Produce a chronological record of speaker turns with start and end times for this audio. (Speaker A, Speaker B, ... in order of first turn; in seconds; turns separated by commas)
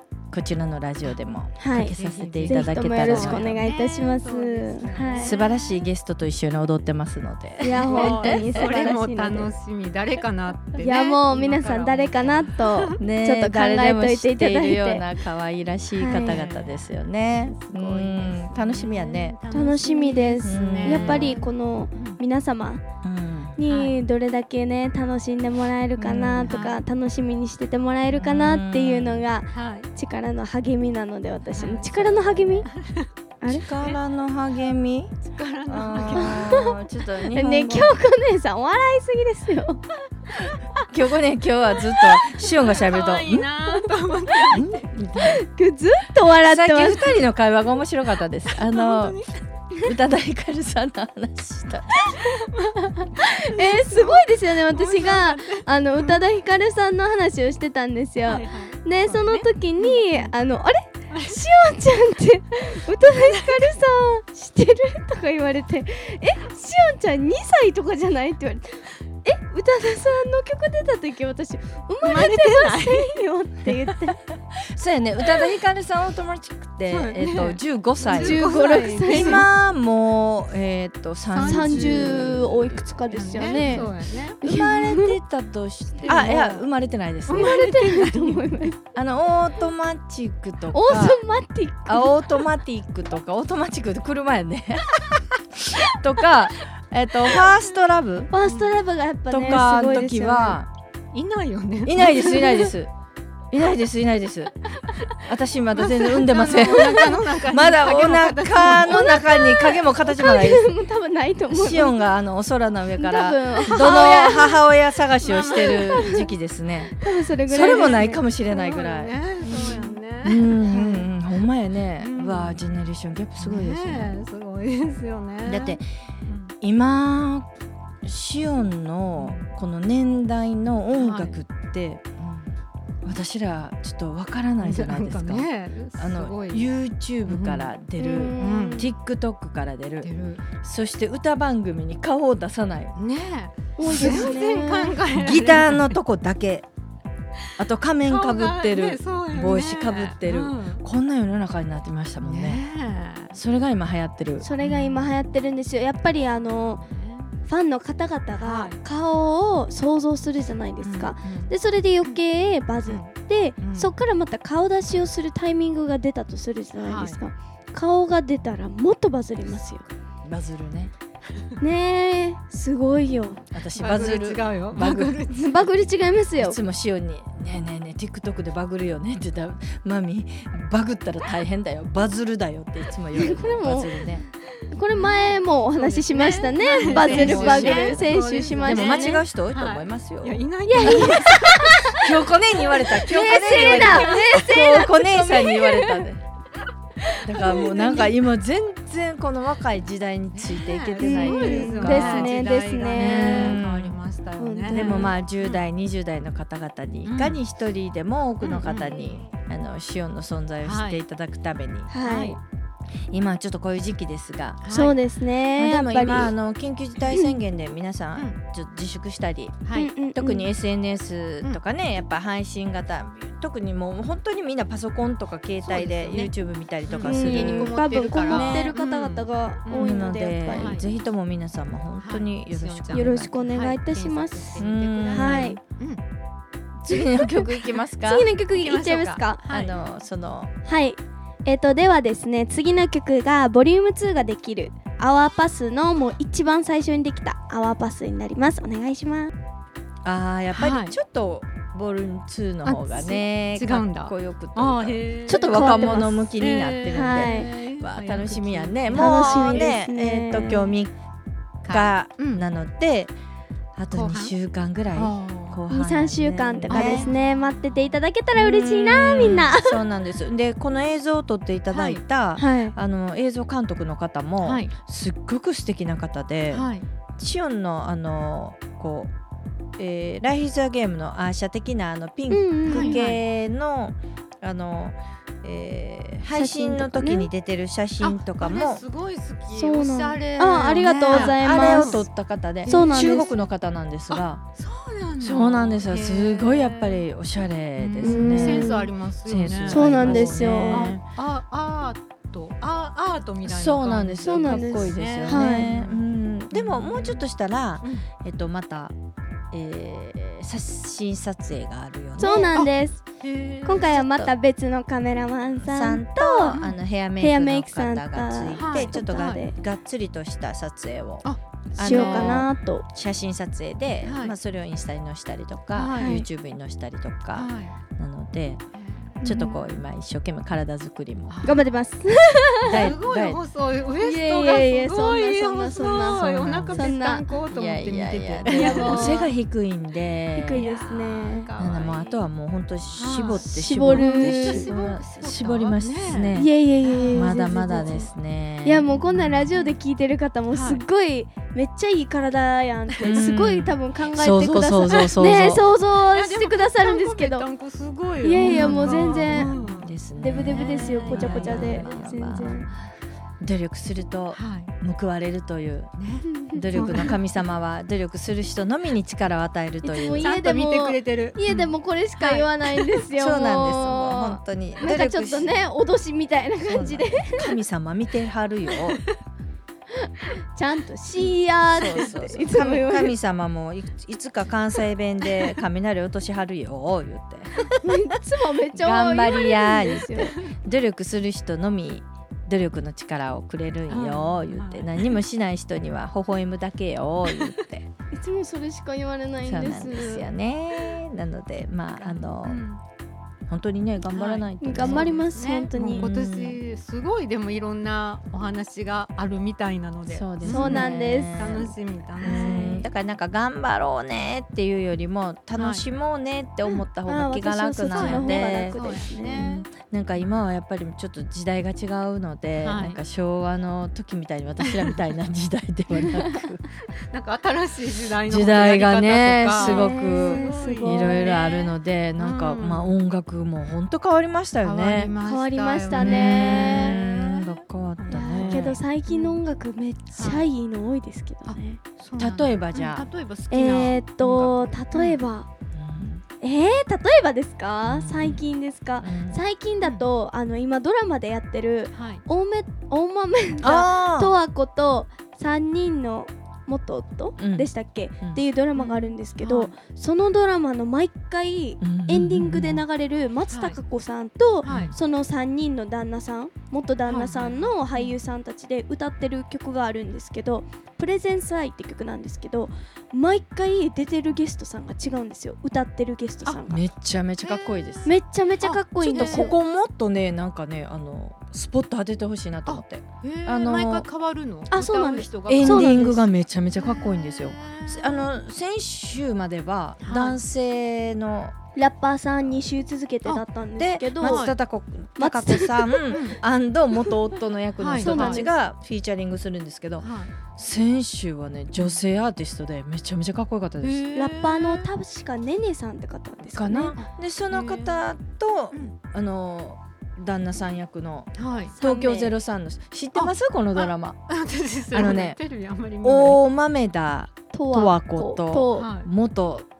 Speaker A: 0.3-3.6, Speaker B: 1.6-1.9, Speaker C: 1.9-5.9, Speaker B: 2.5-5.3, Speaker A: 5.2-8.8, Speaker B: 7.6-9.5, Speaker C: 7.8-12.9, Speaker B: 10.8-15.1, Speaker A: 13.0-19.4, Speaker B: 15.9-16.4, Speaker C: 16.1-22.2, Speaker B: 19.5-22.8, Speaker A: 20.4-21.4, Speaker A: 23.0-23.6, Speaker B: 23.6-32.7, Speaker C: 23.7-24.0, Speaker A: 26.0-26.6, Speaker C: 26.4-26.8, Speaker A: 28.1-29.3, Speaker C: 29.5-29.9, Speaker C: 31.5-33.1, Speaker A: 32.1-32.6, Speaker B: 33.4-33.6, Speaker A: 33.5-37.9, Speaker C: 35.3-36.5, Speaker B: 36.1-39.8, Speaker A: 40.8-43.5, Speaker C: 42.5-44.8, Speaker B: 44.3-44.6, Speaker A: 44.5-45.4, Speaker B: 45.1-47.2, Speaker A: 46.3-49.2, Speaker C: 48.5-49.4, Speaker A: 49.8-52.1, Speaker C: 52.0-56.2, Speaker B: 53.0-74.2, Speaker C: 58.3-60.3, Speaker C: 61.1-61.4, Speaker C: 62.9-63.8, Speaker C: 72.0-73.2, Speaker A: 74.6-82.8, Speaker C: 76.9-79.5, Speaker B: 78.1-79.5, Speaker C: 81.3-84.4, Speaker B: 81.4-85.2, Speaker A: 84.4-87.5, Speaker C: 86.0-86.6, Speaker B: 86.1-86.6, Speaker C: 87.3-88.7, Speaker B: 87.3-88.8, Speaker A: 88.9-91.2, Speaker B: 90.7-92.2, Speaker A: 91.9-98.3, Speaker B: 98.3-100.6, Speaker C: 98.4-98.7, Speaker A: 99.3-100.7, Speaker C: 101.1-102.6, Speaker A: 101.8-102.9, Speaker B: 102.0-102.7, Speaker A: 103.5-104.5, Speaker A: 105.1-110.7, Speaker C: 105.7-109.1, Speaker B: 108.7-112.0, Speaker A: 111.5-116.9, Speaker B: 113.0-114.6, Speaker C: 113.6-114.3, Speaker C: 115.2-116.1, Speaker B: 115.5-116.1, Speaker B: 117.0-118.2, Speaker A: 117.5-124.1, Speaker C: 117.5-121.0, Speaker B: 119.4-120.0, Speaker C: 122.0-122.7, Speaker C: 123.4-126.5, Speaker A: 125.4-125.8, Speaker A: 126.6-127.5, Speaker A: 128.0-132.4, Speaker C: 129.2-129.5, Speaker C: 130.9-131.4, Speaker A: 133.0-142.9, Speaker C: 134.6-136.7, Speaker C: 137.2-137.7, Speaker B: 138.0-138.9, Speaker C: 138.4-138.9, Speaker C: 140.0-140.4, Speaker C: 142.9-146.0, Speaker B: 143.8-145.0, Speaker A: 143.8-144.3, Speaker A: 145.1-146.7, Speaker A: 147.6-152.6, Speaker C: 148.0-150.8, Speaker C: 152.2-153.3, Speaker A: 153.3-154.4, Speaker B: 154.4-156.8, Speaker C: 154.6-155.3, Speaker C: 156.6-157.3, Speaker B: 157.4-169.8, Speaker C: 158.3-158.8, Speaker A: 160.8-161.5, Speaker C: 162.8-163.9, Speaker C: 166.8-167.2, Speaker A: 170.2-170.9, Speaker B: 171.6-173.4, Speaker A: 173.5-175.2, Speaker C: 173.7-175.7, Speaker B: 175.3-176.6, Speaker A: 176.4-184.2, Speaker B: 183.2-189.2, Speaker C: 184.9-191.7, Speaker A: 186.7-188.0, Speaker A: 188.6-191.4, Speaker B: 190.7-192.1, Speaker A: 192.0-196.2, Speaker B: 192.8-196.0, Speaker C: 193.3-194.4, Speaker B: 197.1-198.1, Speaker A: 197.2-202.4, Speaker C: 200.3-205.6, Speaker B: 201.0-203.6, Speaker A: 202.9-204.0, Speaker B: 204.4-205.1, Speaker A: 204.7-211.9, Speaker C: 207.0-207.4, Speaker C: 208.4-209.2, Speaker C: 210.6-211.0, Speaker B: 211.9-212.4, Speaker C: 212.0-212.4, Speaker A: 213.1-214.7, Speaker C: 214.6-215.0, Speaker B: 214.7-216.3, Speaker A: 215.6-228.7, Speaker C: 219.6-219.9, Speaker B: 219.7-220.5, Speaker C: 225.6-226.3, Speaker C: 226.8-230.8, Speaker B: 227.0-230.8, Speaker A: 229.7-233.4, Speaker C: 232.0-236.0, Speaker B: 232.9-235.6, Speaker A: 234.6-235.6, Speaker A: 236.8-238.3, Speaker B: 236.9-239.4, Speaker C: 238.5-239.8, Speaker A: 239.4-240.5, Speaker B: 240.6-249.3, Speaker A: 250.0-260.9, Speaker C: 250.5-251.0, Speaker C: 252.6-259.7, Speaker B: 255.3-256.2, Speaker B: 256.9-257.5, Speaker B: 258.9-260.7, Speaker C: 261.6-262.4, Speaker A: 261.7-263.1, Speaker A: 263.8-267.1, Speaker C: 263.9-264.3, Speaker C: 264.9-265.6, Speaker B: 265.7-269.8, Speaker C: 266.7-267.8, Speaker A: 268.3-279.1, Speaker C: 269.2-269.5, Speaker C: 271.7-272.0, Speaker B: 272.4-272.7, Speaker C: 274.4-274.7, Speaker C: 276.5-276.9, Speaker A: 279.8-288.8, Speaker B: 282.3-283.0, Speaker C: 282.7-283.2, Speaker B: 286.3-287.3, Speaker C: 288.0-292.1, Speaker B: 289.5-292.0, Speaker A: 291.1-294.4, Speaker C: 292.6-293.3, Speaker B: 292.7-293.3, Speaker C: 294.1-297.1, Speaker A: 295.2-301.0, Speaker C: 297.8-307.2, Speaker B: 298.0-298.9, Speaker B: 299.7-300.9, Speaker A: 303.4-308.9, Speaker B: 304.2-305.7, Speaker C: 307.8-308.1, Speaker A: 309.5-312.5, Speaker B: 312.2-313.0, Speaker C: 312.5-313.9, Speaker B: 313.6-316.6, Speaker A: 313.7-314.3, Speaker A: 315.6-328.6, Speaker B: 317.1-319.5, Speaker C: 318.6-319.4, Speaker C: 321.2-322.5, Speaker B: 321.8-322.9, Speaker C: 324.0-324.3, Speaker C: 325.7-326.2, Speaker B: 325.9-326.2, Speaker C: 327.3-327.8, Speaker C: 328.7-329.2, Speaker A: 329.2-331.5, Speaker B: 329.2-329.6, Speaker C: 331.3-331.6, Speaker B: 331.4-332.9, Speaker A: 332.6-333.4, Speaker C: 332.7-339.3, Speaker B: 334.0-337.3, Speaker A: 336.4-336.9, Speaker A: 337.5-340.7, Speaker B: 338.4-339.3, Speaker B: 340.3-341.5, Speaker C: 340.5-342.2, Speaker A: 341.6-346.5, Speaker C: 342.9-347.9, Speaker B: 343.4-344.7, Speaker B: 346.3-348.1, Speaker A: 347.1-348.8, Speaker B: 348.6-357.5, Speaker C: 348.9-349.8, Speaker C: 350.5-350.8, Speaker C: 353.0-353.3, Speaker A: 353.0-355.6, Speaker C: 356.1-360.0, Speaker B: 358.2-359.6, Speaker A: 358.3-362.7, Speaker B: 360.1-362.7, Speaker C: 360.5-362.7, Speaker A: 363.4-365.9, Speaker C: 364.3-364.7, Speaker C: 366.0-367.2, Speaker B: 366.2-367.1, Speaker A: 366.5-370.3, Speaker B: 369.8-377.5, Speaker C: 370.2-372.8, Speaker A: 373.1-375.6, Speaker A: 376.6-379.0, Speaker B: 380.2-383.1, Speaker A: 381.7-387.7, Speaker C: 381.8-382.1, Speaker B: 387.8-390.3, Speaker A: 388.7-397.9, Speaker C: 393.9-395.2, Speaker C: 397.3-397.6, Speaker B: 398.1-400.3, Speaker A: 399.4-402.6, Speaker C: 402.0-402.8, Speaker A: 403.5-405.1, Speaker C: 404.1-412.8, Speaker B: 404.6-406.1, Speaker A: 405.8-406.6, Speaker A: 410.1-418.8, Speaker B: 410.5-411.4, Speaker B: 412.2-412.9, Speaker C: 415.6-415.9, Speaker B: 417.1-419.4, Speaker C: 417.9-419.7, Speaker A: 419.4-426.6, Speaker C: 422.6-423.0, Speaker C: 424.7-424.9, Speaker C: 427.1-432.9, Speaker A: 428.2-435.1, Speaker B: 429.5-431.3, Speaker C: 434.6-439.4, Speaker B: 435.2-437.0, Speaker A: 435.9-438.8, Speaker B: 438.1-441.8, Speaker C: 440.1-440.5, Speaker C: 441.4-445.2, Speaker A: 442.2-443.1, Speaker B: 443.5-445.5, Speaker A: 445.7-446.2, Speaker B: 446.4-476.8, Speaker A: 447.9-448.4, Speaker A: 449.0-449.4, Speaker C: 451.9-452.2, Speaker A: 453.6-454.3, Speaker A: 457.4-457.7, Speaker C: 458.7-459.7, Speaker A: 461.8-462.8, Speaker C: 463.5-463.8, Speaker C: 464.6-464.9, Speaker A: 464.6-464.9, Speaker C: 467.1-468.2, Speaker A: 476.7-478.1, Speaker C: 477.4-479.5, Speaker B: 478.0-479.6, Speaker A: 479.0-484.1, Speaker C: 482.7-486.1, Speaker B: 484.7-486.3, Speaker A: 485.5-491.5, Speaker C: 486.7-488.3, Speaker C: 490.0-490.4, Speaker B: 491.7-494.5, Speaker A: 493.8-504.1, Speaker C: 494.2-494.5, Speaker B: 495.2-496.2, Speaker C: 496.1-496.4, Speaker C: 497.8-498.4, Speaker B: 498.0-498.5, Speaker C: 500.0-500.3, Speaker C: 501.8-502.0, Speaker C: 503.8-504.9, Speaker B: 504.1-507.0, Speaker A: 506.5-514.2, Speaker C: 507.0-508.1, Speaker C: 511.4-511.8, Speaker B: 511.8-512.3, Speaker C: 513.1-516.4, Speaker A: 514.9-515.4, Speaker A: 516.0-519.6, Speaker B: 517.5-518.9, Speaker C: 518.7-519.1